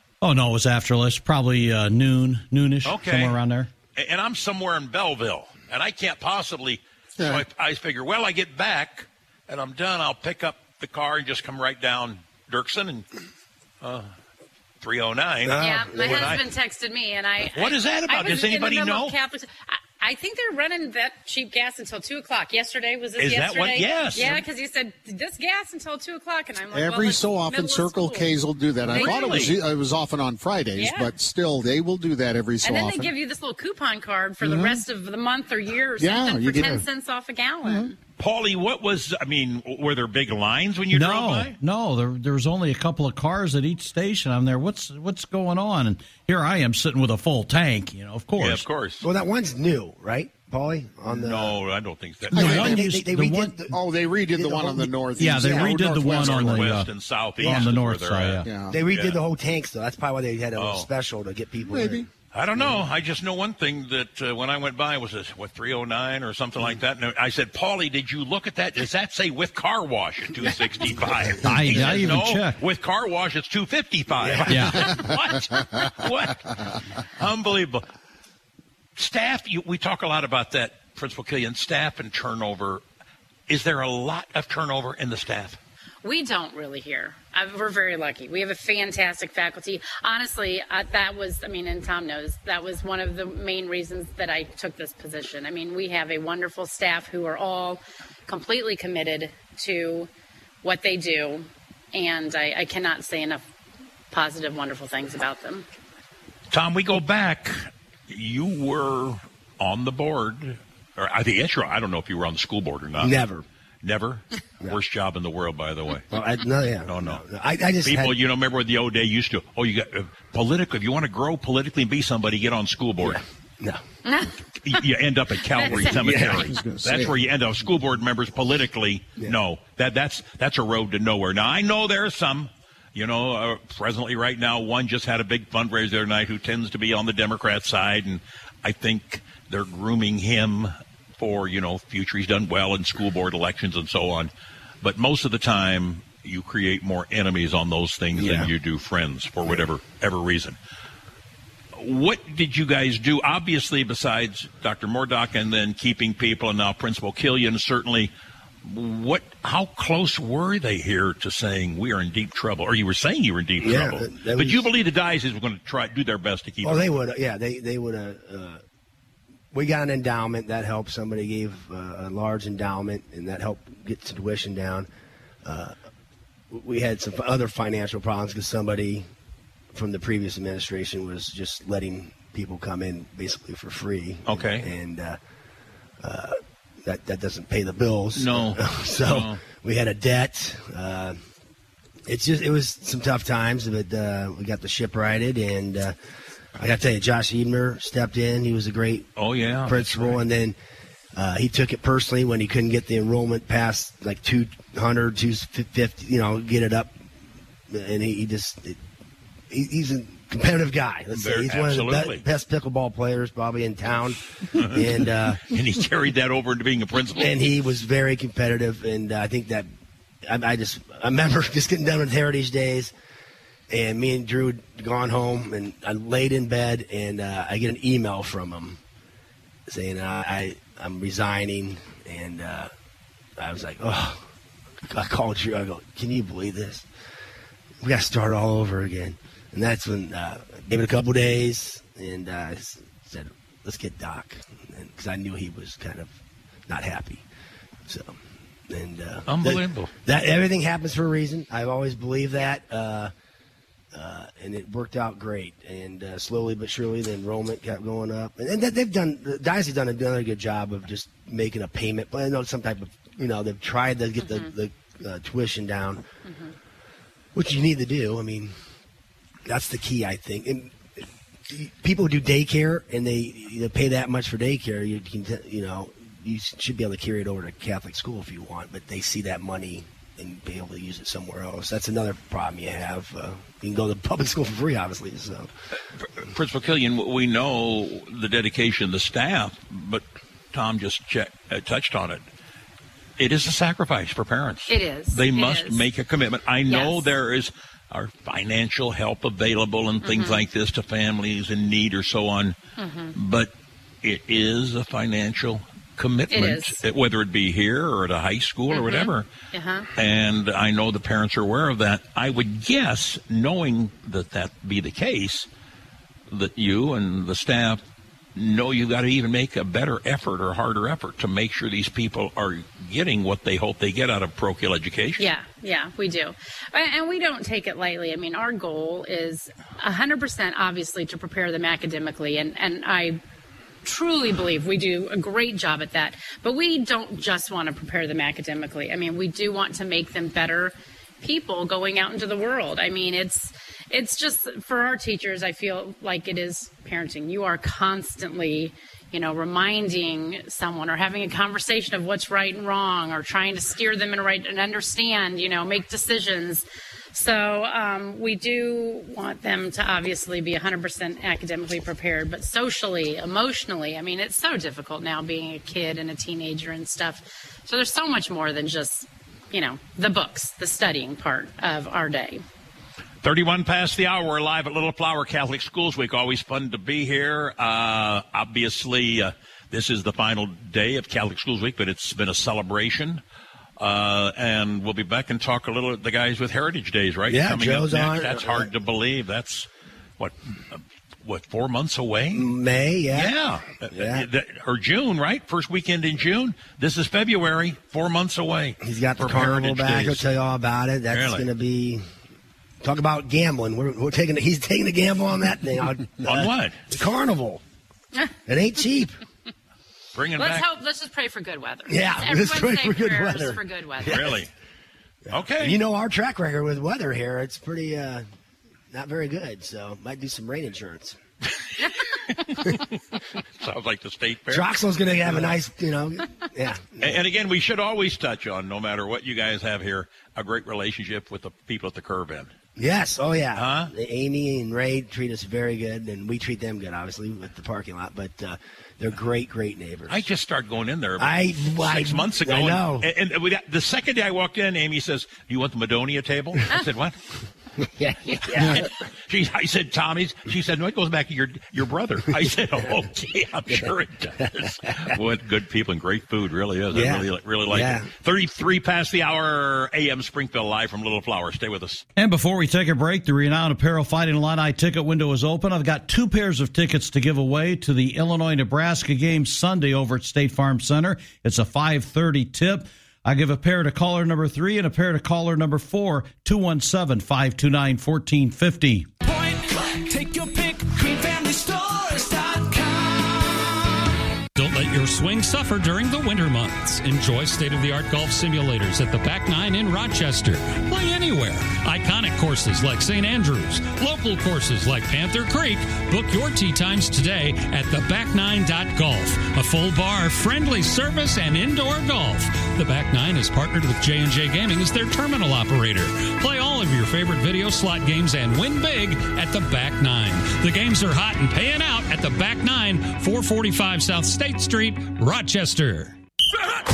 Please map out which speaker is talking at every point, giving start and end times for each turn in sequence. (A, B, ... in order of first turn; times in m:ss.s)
0:00.2-0:03.7 A
0:02.8-0:03.4 B
0:04.0-0:13.1 B
0:07.2-0:07.4 C
0:13.8-0:14.1 B
0:14.8-0:16.4 B
0:15.5-0:16.4 D
0:15.6-0:29.6 E
0:17.5-0:19.1 B
0:23.2-0:24.4 B
0:26.7-0:33.1 C
0:28.9-0:29.6 B
0:30.8-0:31.1 E
0:32.6-0:38.0 E
0:34.4-0:34.8 C
0:36.0-0:36.9 C
0:37.6-0:37.9 C
0:38.2-0:41.5 B
0:40.9-0:48.6 A
0:48.4-0:49.0 B
0:49.0-0:51.6 D
0:51.1-0:52.9 B
0:52.3-0:56.8 C
0:52.3-0:53.8 D
0:52.5-0:53.5 A
0:54.4-0:55.6 D
0:55.2-0:56.9 A
0:55.9-0:59.2 B
0:57.4-0:58.5 A
0:58.4-0:58.8 C
0:58.7-1:02.0 D
1:00.6-1:00.9 B
1:01.7-1:02.1 C
1:02.3-1:16.5 B
1:02.6-1:02.8 D
1:10.4-1:11.4 D
1:11.4-1:12.6 A
1:14.2-1:14.6 D
1:14.5-1:14.9 A
1:17.2-1:17.8 B
1:19.0-1:22.8 B
1:23.5-1:25.6 B
1:26.0-1:40.1 E
1:40.6-1:43.4 E
1:44.1-1:45.7 E
1:46.5-1:53.2 B
1:53.0-1:53.4 D
1:53.8-1:56.1 B
1:56.1-1:58.2 D
1:56.9-1:57.2 B
1:57.8-2:03.2 B
2:03.0-2:03.8 D
2:04.6-2:24.3 B
2:05.6-2:05.9 E
2:05.6-2:06.5 D
2:06.3-2:07.1 C
2:24.8-2:30.6 B
2:28.2-2:28.5 D
2:31.8-2:38.1 B
2:38.6-2:46.9 B
2:43.6-2:44.6 D
2:46.6-2:48.6 D
2:49.5-2:54.9 D
2:55.4-2:55.8 D
2:56.5-2:59.1 D
2:59.7-3:05.2 D
3:04.3-3:04.7 B
3:06.0-3:11.2 D
3:08.2-3:09.4 B
3:12.1-3:16.0 D
3:16.6-3:19.1 D
3:19.2-3:20.2 B
3:19.6-3:20.6 D
3:21.2-3:27.0 D
3:27.7-3:28.8 D
3:29.5-3:35.5 D
3:31.1-3:32.2 B
3:34.6-3:37.4 B
3:37.2-3:39.7 D
3:40.3-3:42.9 D
3:43.7-3:48.8 D
3:49.7-3:52.7 D
3:53.4-3:54.2 D
3:54.9-3:56.9 D
3:57.8-4:06.1 D
4:06.7-4:07.2 D
4:07.9-4:08.2 D
4:08.7-4:13.1 D
4:09.3-4:09.9 B
4:13.9-4:26.0 D
4:24.2-4:24.5 E
4:26.2-4:26.5 E
4:27.4-4:28.6 D
4:29.5-4:30.9 D
4:31.5-4:45.5 D
4:46.2-4:52.2 B
4:53.2-5:02.6 B
4:54.7-4:55.8 E
4:56.7-4:57.0 E
5:00.0-5:00.4 E
5:02.8-5:03.1 E
5:03.2-5:03.5 B
5:04.0-5:09.3 B
5:06.3-5:06.8 E
5:08.7-5:09.9 E
5:10.0-5:15.5 B
5:16.3-5:17.8 B
5:18.4-5:25.2 B
5:25.2-5:33.2 E
5:33.8-6:12.4 E
6:13.2-6:23.2 B
6:23.8-6:29.7 B
6:27.3-6:28.7 D
6:30.2-6:32.4 B
6:32.3-6:33.4 D
6:33.1-6:40.3 B
6:33.9-6:34.3 D
6:38.8-6:42.0 D
6:41.1-6:41.5 B
6:42.8-6:47.6 D
6:46.2-6:46.8 B
6:48.5-6:49.1 D
6:50.2-6:50.7 B
6:50.4-6:54.3 E
6:51.9-6:54.4 D
6:54.0-6:54.5 B
6:55.3-6:58.2 D
6:55.3-6:55.8 B
6:58.9-7:01.2 D
7:02.5-7:03.0 B
7:03.6-7:05.6 B
7:04.5-7:07.2 D
7:07.0-7:12.5 B
7:12.8-7:20.2 D
7:13.6-7:13.9 B
7:20.1-7:27.2 B
7:21.2-7:23.1 D
7:28.0-7:28.9 D
7:28.5-7:42.0 B
7:36.9-7:38.1 D
7:42.2-7:59.1 A
8:00.1-8:00.9 F
8:04.6-8:36.2 F